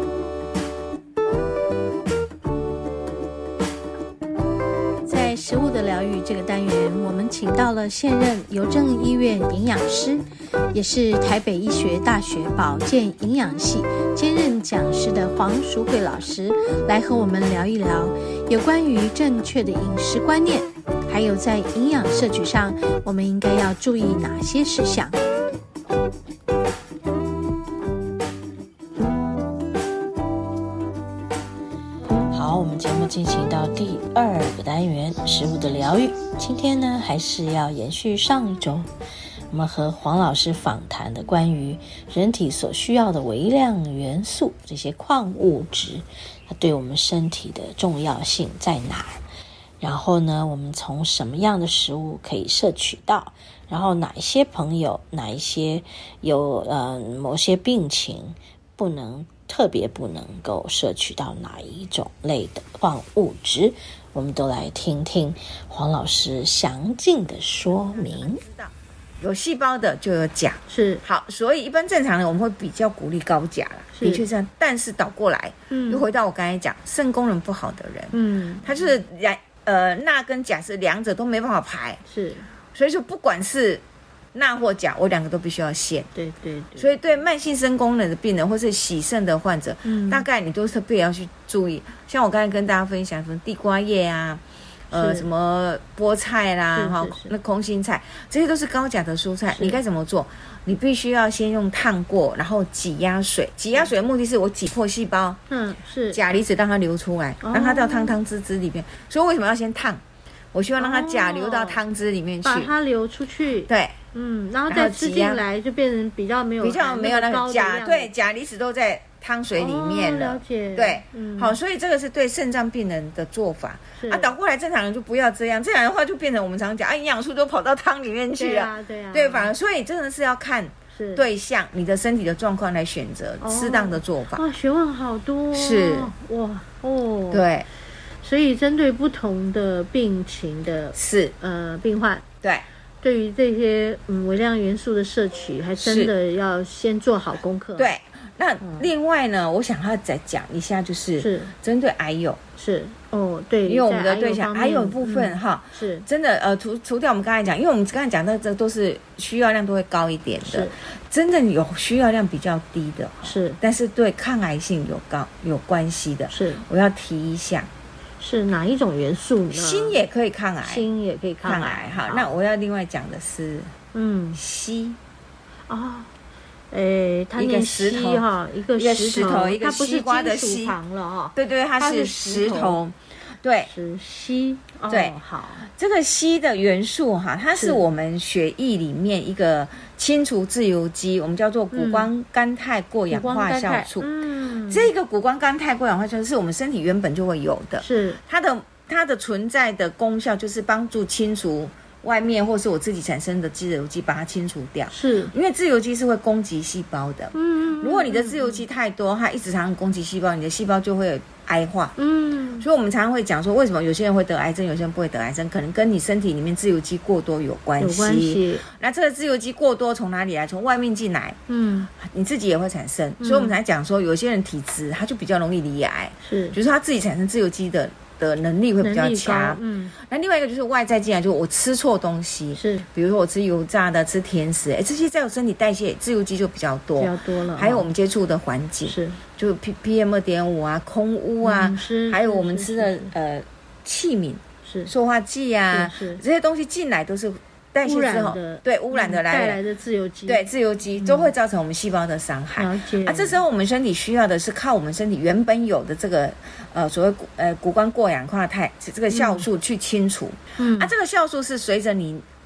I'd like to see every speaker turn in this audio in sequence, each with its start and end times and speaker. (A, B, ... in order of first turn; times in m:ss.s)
0:05.0-0:25.2 A
0:32.3-0:38.9 B
0:39.5-0:49.2 B
0:49.8-1:08.4 B
1:07.7-1:22.0 C
1:10.7-1:11.0 A
1:13.9-1:14.3 A
1:15.7-1:16.1 A
1:18.1-1:18.8 A
1:22.1-1:22.5 A
1:22.7-1:23.8 C
1:24.3-1:26.1 C
1:26.2-1:26.9 A
1:26.8-1:45.4 C
1:29.8-1:30.3 A
1:34.9-1:35.3 A
1:36.7-1:37.3 A
1:39.6-1:39.8 A
1:45.5-1:46.2 A
1:46.1-1:50.0 C
1:47.4-1:48.2 A
1:50.5-1:52.7 C
1:50.8-1:51.8 A
1:52.4-1:58.1 A
1:53.7-1:54.0 C
1:54.7-1:55.4 C
1:56.6-2:14.4 C
1:59.6-2:01.6 A
2:04.0-2:04.3 A
2:08.3-2:09.5 A
2:10.9-2:11.2 A
2:13.4-2:17.4 A
2:15.5-2:16.1 C
2:17.3-2:17.7 C
2:18.2-2:22.2 A
2:20.9-2:21.4 C
2:23.0-2:27.9 A
2:25.8-2:26.1 C
2:27.8-2:32.4 C
2:31.2-2:31.5 A
2:32.6-2:36.1 A
2:33.7-2:47.7 C
2:40.4-2:40.8 A
2:43.2-2:43.6 A
2:46.3-2:46.6 A
2:48.2-2:50.0 A
2:49.5-2:50.9 C
2:50.6-2:52.3 A
2:51.4-2:53.7 C
2:53.9-2:54.4 A
2:54.3-2:55.0 C
2:55.7-2:56.1 A
2:56.7-3:02.8 A
2:57.4-3:00.8 C
3:01.4-3:03.7 C
3:03.7-3:05.7 A
3:04.9-3:32.0 C
3:07.6-3:07.8 A
3:11.7-3:12.1 A
3:13.1-3:14.9 A
3:17.8-3:18.2 A
3:24.9-3:25.3 A
3:27.3-3:28.6 A
3:32.0-3:32.7 A
3:32.6-3:41.4 C
3:37.8-3:38.6 A
3:41.5-3:41.9 A
3:42.0-4:09.6 C
3:43.2-3:43.6 A
3:46.2-3:46.6 A
3:48.8-3:50.0 A
3:52.6-3:52.9 A
3:57.0-3:57.9 A
3:58.9-3:59.2 A
4:01.4-4:03.1 A
4:04.6-4:04.9 A
4:05.7-4:06.2 A
4:07.8-4:11.3 A
4:10.3-4:22.2 C
4:12.6-4:13.4 A
4:19.1-4:19.5 A
4:20.6-4:20.9 A